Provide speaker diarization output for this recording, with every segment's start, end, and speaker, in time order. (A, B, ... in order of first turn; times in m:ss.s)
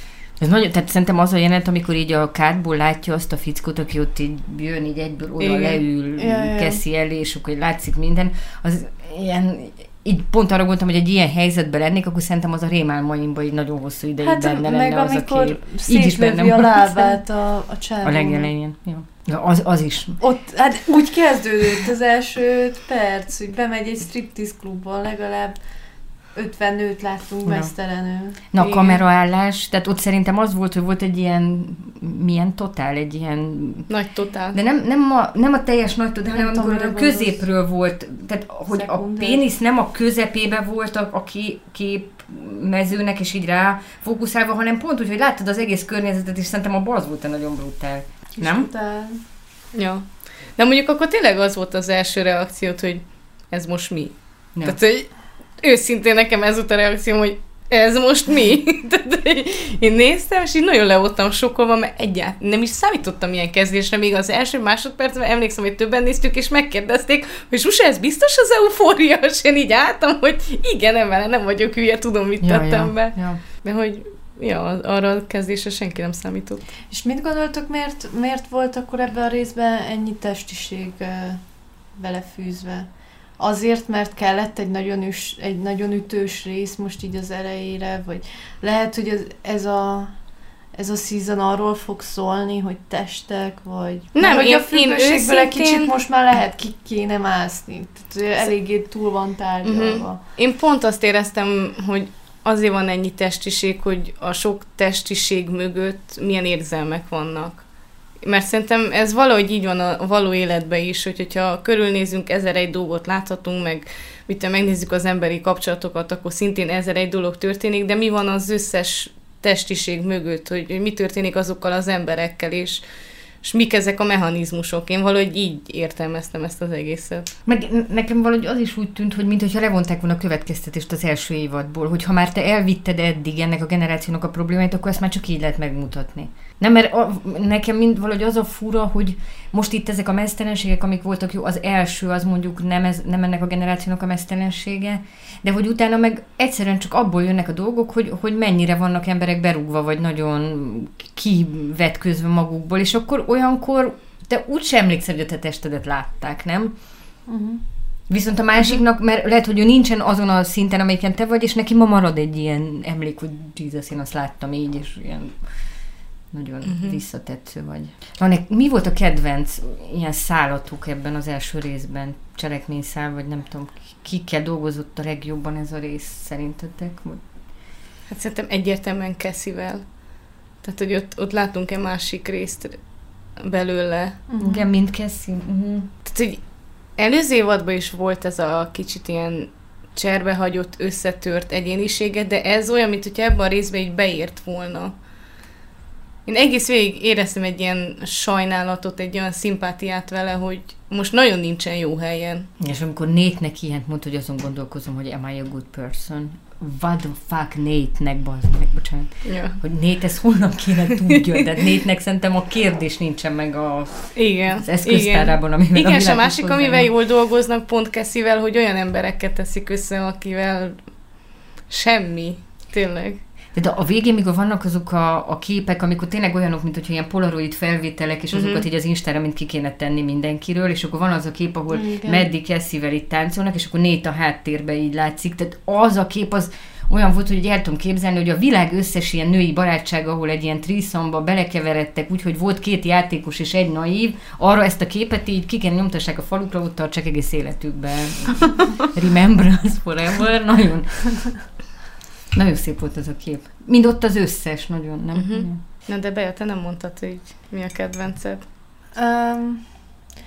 0:00.4-0:17.1 A
0:05.4-0:05.8 B
0:06.2-0:06.8 C
0:14.2-0:18.5 C
0:18.0-0:20.2 A
0:20.2-0:28.4 C
0:27.4-0:27.7 A
0:28.4-0:33.9 A
0:28.6-0:29.0 B
0:33.9-0:34.6 B
0:34.5-0:48.7 A
0:36.3-0:37.4 C
0:38.7-0:39.4 C
0:48.4-0:49.2 C
0:49.7-1:16.6 B
1:12.4-1:13.4 A
1:16.9-1:40.2 C
1:34.1-1:35.9 B
1:39.6-2:02.8 B
2:03.4-2:07.3 B
2:07.4-2:36.8 A
2:37.2-2:37.6 C
2:38.1-2:57.2 A
2:46.6-2:47.0 B
2:58.1-3:02.8 B
3:03.4-3:04.2 B
3:04.3-3:04.6 C
3:04.4-3:05.9 A
3:06.0-3:06.4 B
3:07.0-3:14.9 B
3:16.2-3:22.5 B
3:22.6-3:36.9 A
3:29.2-3:29.6 B
3:34.1-3:43.2 B
3:43.5-4:11.5 A
3:48.3-3:48.6 B
3:51.7-3:52.3 C
4:12.3-4:15.6 A
4:15.1-4:18.4 B
4:18.9-4:19.9 C